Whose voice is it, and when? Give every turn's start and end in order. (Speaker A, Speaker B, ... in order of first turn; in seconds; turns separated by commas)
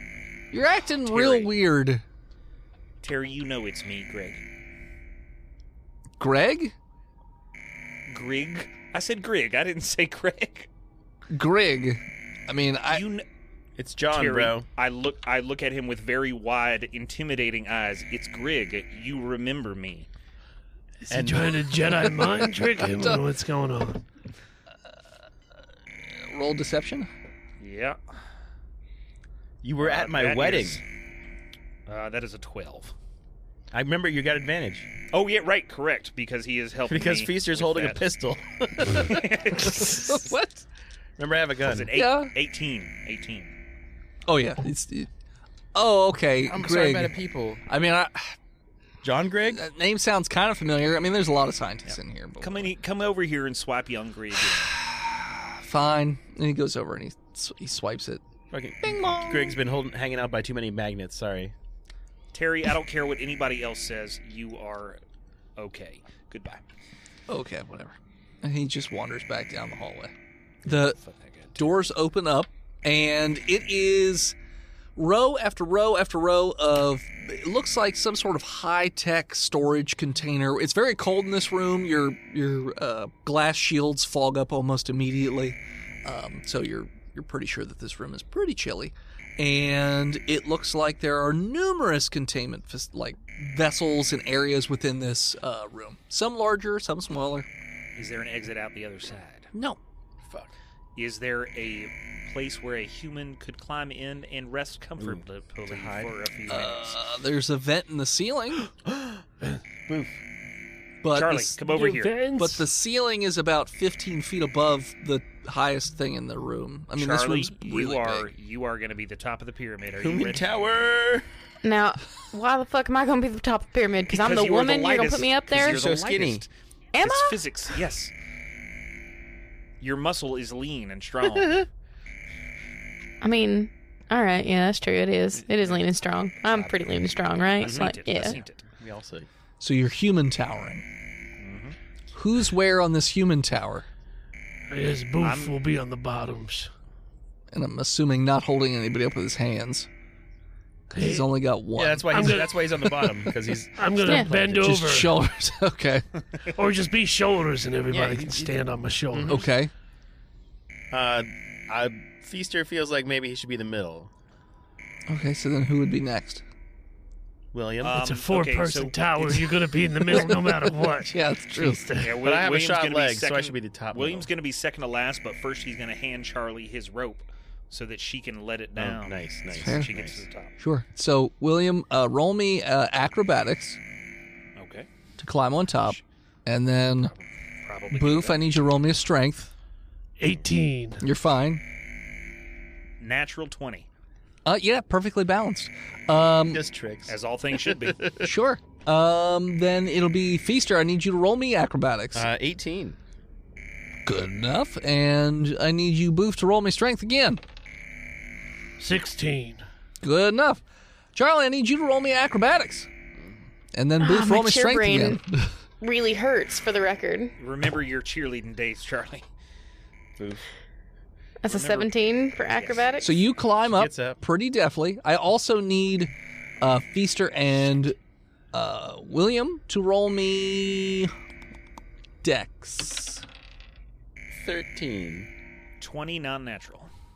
Speaker A: 0.5-2.0, Speaker B: 1.1-1.5, Speaker B: 3.0-4.4, Speaker A: 6.2-6.7, Speaker B: 8.1-10.7, Speaker A: 11.3-13.0, Speaker B: 12.9-13.2, Speaker C: 13.8-14.6, Speaker B: 14.1-20.1, Speaker D: 21.0-24.0, Speaker C: 21.1-21.9, Speaker A: 22.8-23.2, Speaker A: 26.3-27.1, Speaker B: 27.6-28.0, Speaker C: 29.6-30.8, Speaker B: 29.8-30.8, Speaker B: 31.9-32.9, Speaker C: 33.7-34.9, Speaker B: 35.1-38.0, Speaker C: 36.9-39.8, Speaker B: 38.9-40.3, Speaker A: 39.8-40.6, Speaker C: 41.2-41.9, Speaker B: 41.6-43.5, Speaker A: 41.9-42.3, Speaker A: 44.2-45.1, Speaker A: 45.7-47.1, Speaker C: 46.4-47.6, Speaker A: 47.6-48.3, Speaker C: 49.0-49.6, Speaker A: 49.5-52.7, Speaker B: 51.9-54.7, Speaker A: 54.6-58.2, Speaker C: 58.5-61.5, Speaker A: 58.8-59.6, Speaker B: 62.3-65.0, Speaker B: 65.6-66.6, Speaker A: 67.3-70.1, Speaker A: 70.6-71.0, Speaker B: 70.7-71.6, Speaker A: 71.5-74.3, Speaker A: 75.0-97.5, Speaker B: 98.0-99.5, Speaker A: 99.5-99.8, Speaker C: 100.3-100.5, Speaker B: 101.0-107.0, Speaker C: 105.0-106.1, Speaker A: 106.5-108.7, Speaker C: 108.8-109.2, Speaker C: 109.9-110.2, Speaker A: 111.0-111.5, Speaker B: 111.1-112.2, Speaker D: 111.6-112.6, Speaker A: 112.4-118.3, Speaker B: 117.0-120.5, Speaker C: 120.0-121.2, Speaker E: 121.6-125.8, Speaker B: 124.1-128.1, Speaker C: 125.5-126.5, Speaker E: 126.9-127.4, Speaker B: 129.8-131.7, Speaker C: 131.2-131.6, Speaker E: 133.2-138.4, Speaker B: 136.5-136.8, Speaker B: 137.6-138.6, Speaker C: 137.6-137.9, Speaker C: 138.8-139.3, Speaker A: 139.6-140.8, Speaker B: 141.4-141.8, Speaker A: 142.1-143.8, Speaker D: 144.7-146.7, Speaker B: 145.2-145.6, Speaker A: 147.5-149.9, Speaker A: 150.9-153.3, Speaker D: 150.9-151.2, Speaker C: 151.8-154.7, Speaker D: 152.1-152.6, Speaker D: 153.8-155.1, Speaker E: 154.0-154.3, Speaker A: 154.5-156.0, Speaker D: 156.5-159.4, Speaker C: 157.9-159.4, Speaker A: 159.3-159.7, Speaker C: 160.9-164.1, Speaker A: 165.1-166.4, Speaker C: 167.5-168.1, Speaker B: 167.8-169.5, Speaker D: 167.9-172.2, Speaker A: 170.1-171.8, Speaker B: 172.0-180.5, Speaker C: 172.1-174.3, Speaker C: 178.8-180.2, Speaker A: 179.6-179.9, Speaker A: 180.6-183.8, Speaker B: 184.6-184.9, Speaker A: 185.2-187.1, Speaker B: 187.6-188.4, Speaker A: 187.9-189.5, Speaker D: 190.2-191.0, Speaker A: 191.0-191.6, Speaker B: 193.0-193.9, Speaker A: 194.4-196.6, Speaker C: 196.5-198.3, Speaker B: 197.1-198.1, Speaker A: 198.2-202.3, Speaker C: 202.1-203.0, Speaker A: 204.0-207.4, Speaker D: 208.8-209.6, Speaker A: 210.0-210.6, Speaker A: 211.1-212.9, Speaker A: 213.7-215.5, Speaker E: 214.0-215.2, Speaker E: 215.8-217.3, Speaker B: 217.4-219.2, Speaker C: 220.2-220.4, Speaker E: 221.4-223.2, Speaker B: 221.5-221.9, Speaker B: 222.5-222.8, Speaker A: 223.0-227.9, Speaker C: 223.7-224.2, Speaker A: 228.5-231.1, Speaker A: 232.2-233.2, Speaker C: 234.3-235.3, Speaker B: 235.8-236.9